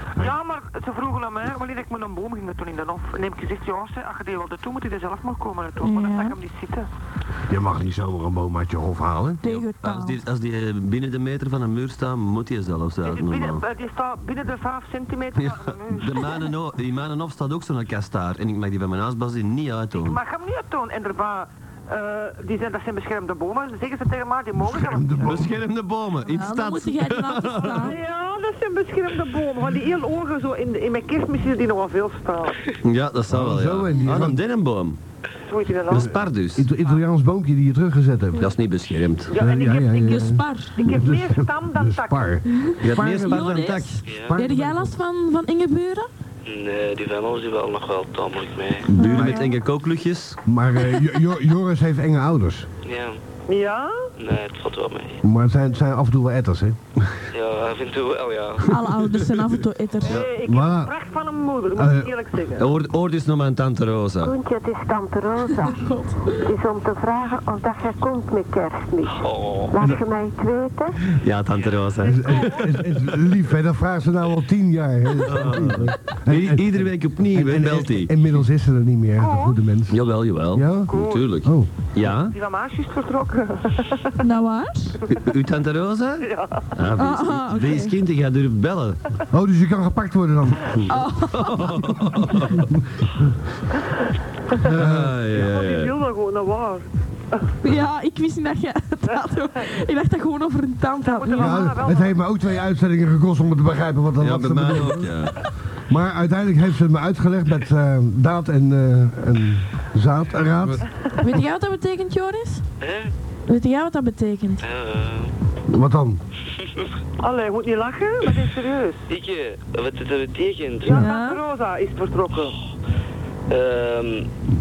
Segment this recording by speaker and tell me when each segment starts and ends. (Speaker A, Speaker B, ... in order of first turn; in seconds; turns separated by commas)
Speaker A: 0.2-6.9, Speaker B: 5.8-6.3, Speaker C: 7.5-9.4, Speaker B: 9.4-10.2, Speaker D: 9.4-13.6, Speaker A: 13.0-16.4, Speaker D: 15.4-20.2, Speaker A: 19.9-25.3, Speaker C: 24.6-25.5, Speaker D: 25.2-27.9, Speaker B: 26.3-28.0, Speaker A: 27.8-32.6, Speaker D: 32.8-35.0, Speaker C: 33.3-34.4, Speaker A: 35.5-36.1, Speaker D: 35.9-36.7, Speaker C: 36.5-38.5, Speaker D: 38.4-39.3, Speaker A: 39.3-40.1, Speaker C: 39.3-43.5, Speaker B: 39.9-40.8, Speaker A: 40.8-42.4, Speaker B: 42.5-46.1, Speaker D: 42.8-44.0, Speaker E: 44.0-44.4, Speaker C: 44.1-45.0, Speaker E: 46.5-48.9, Speaker D: 48.9-50.4, Speaker B: 48.9-49.5, Speaker C: 50.5-52.7, Speaker E: 52.8-53.2, Speaker A: 53.5-54.0, Speaker E: 54.2-55.2, Speaker C: 55.2-57.2, Speaker E: 57.3-58.7, Speaker B: 58.7-60.2, Speaker A: 60.0-62.6, Speaker C: 60.4-61.0, Speaker C: 61.7-62.1, Speaker D: 62.6-64.3, Speaker F: 64.2-65.8, Speaker B: 65.6-66.3, Speaker F: 66.4-71.0, Speaker E: 69.1-69.8, Speaker D: 71.2-72.7, Speaker A: 72.0-72.6, Speaker C: 72.0-80.0, Speaker D: 75.2-78.1, Speaker A: 79.2-79.5, Speaker D: 79.9-82.3, Speaker C: 80.5-81.7, Speaker A: 80.9-81.3, Speaker A: 82.3-84.2, Speaker B: 84.2-85.0, Speaker D: 85.2-89.0, Speaker A: 86.2-86.6, Speaker B: 87.0-87.9, Speaker C: 89.3-90.8, Speaker D: 90.7-92.6, Speaker B: 90.9-92.0, Speaker D: 94.6-95.9, Speaker C: 94.6-95.2, Speaker A: 95.3-97.4, Speaker B: 97.6-101.7, Speaker A: 101.0-102.1, Speaker C: 101.4-105.1, Speaker D: 104.2-105.4, Speaker C: 105.9-110.8, Speaker B: 111.2-112.6, Speaker E: 112.8-113.1, Speaker B: 113.5-114.6, Speaker E: 114.6-115.3, Speaker C: 115.7-116.2, Speaker A: 117.2-119.0, Speaker E: 119.1-121.0, Speaker B: 120.8-121.4, Speaker A: 120.9-122.5, Speaker E: 123.5-124.3